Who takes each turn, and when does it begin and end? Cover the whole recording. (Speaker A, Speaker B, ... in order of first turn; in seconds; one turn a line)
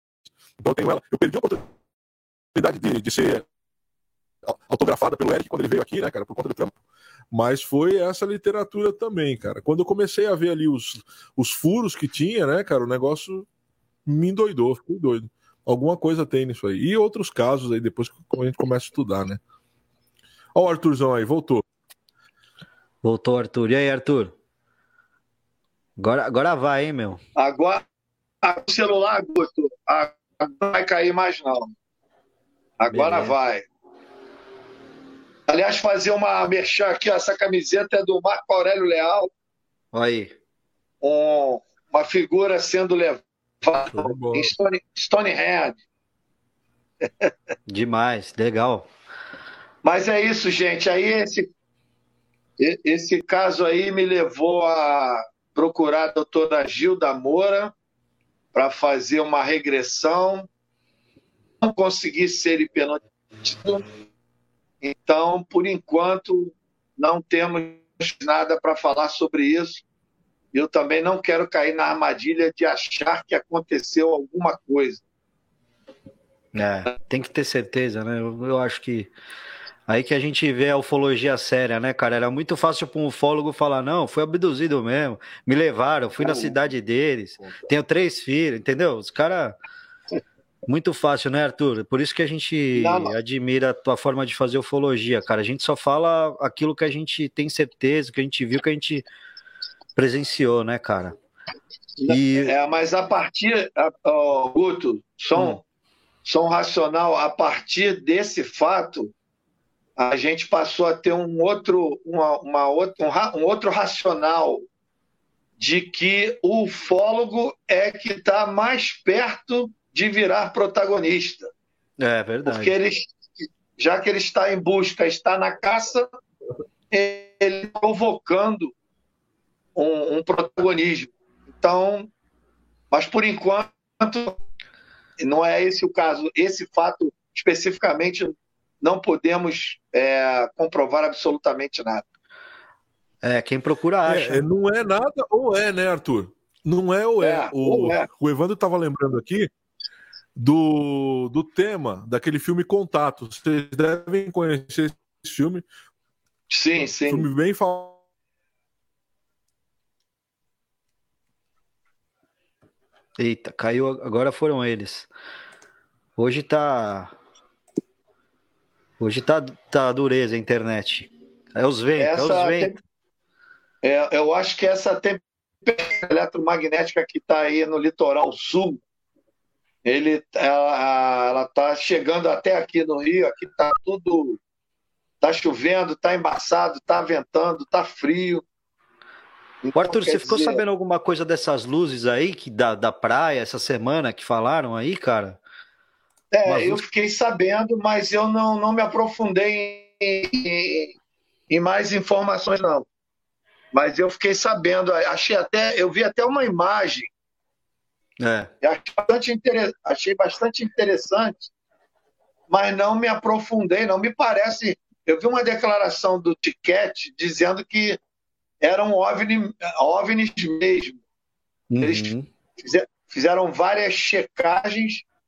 Speaker A: 0.6-1.7
Speaker A: 2.5-3.5
Speaker A: 4.5-6.8
Speaker A: 7.3-13.5
Speaker A: 14.1-19.4
Speaker A: 20.6-21.6
Speaker B: 23.0-24.4
Speaker B: 26.0-27.2
Speaker C: 27.4-27.8
Speaker C: 28.4-31.7
Speaker C: 32.8-33.7
Speaker B: 32.9-33.4
Speaker C: 35.5-39.3
Speaker B: 39.9-40.3
Speaker C: 41.0-45.8
Speaker A: 43.9-44.5
Speaker C: 47.0-47.3
Speaker B: 47.7-48.9
Speaker C: 49.8-51.5
Speaker C: 52.6-57.7
Speaker C: 58.5-60.5
Speaker C: 61.6-63.9
Speaker C: 64.8-69.8
Speaker C: 70.5-75.0
Speaker B: 76.5-79.1
Speaker B: 79.9-89.6
Speaker C: 86.2-86.5
Speaker B: 90.7-99.0
Speaker C: 92.8-93.1
Speaker B: 100.0-101.2
Speaker C: 102.0-105.6
Speaker B: 102.1-102.5
Speaker B: 105.3-105.6
Speaker C: 106.2-109.1
Speaker C: 110.0-114.7
Speaker C: 115.6-121.5
Speaker B: 122.0-122.7
Speaker C: 122.5-126.1
Speaker C: 126.9-128.7
Speaker C: 129.8-132.1
Speaker C: 132.9-134.4
Speaker C: 135.2-142.1
Speaker B: 143.2-144.4
Speaker A: 144.1-149.5
Speaker C: 147.2-148.1
Speaker A: 150.4-155.7
Speaker C: 156.5-157.3
Speaker A: 157.1-158.0
Speaker B: 163.2-165.1
Speaker B: 166.2-167.1
Speaker B: 169.0-172.7
Speaker C: 172.0-172.8
Speaker C: 173.8-178.8
Speaker C: 179.8-184.4
Speaker C: 185.2-188.4
Speaker C: 189.6-190.6
Speaker B: 189.8-195.4
Speaker C: 196.3-201.0
Speaker B: 196.5-196.8
Speaker C: 201.5-202.9
Speaker C: 203.7-207.1
Speaker B: 208.2-208.5
Speaker C: 208.6-211.5
Speaker C: 212.5-218.0
Speaker C: 218.6-221.0
Speaker B: 221.7-222.3
Speaker C: 221.8-225.1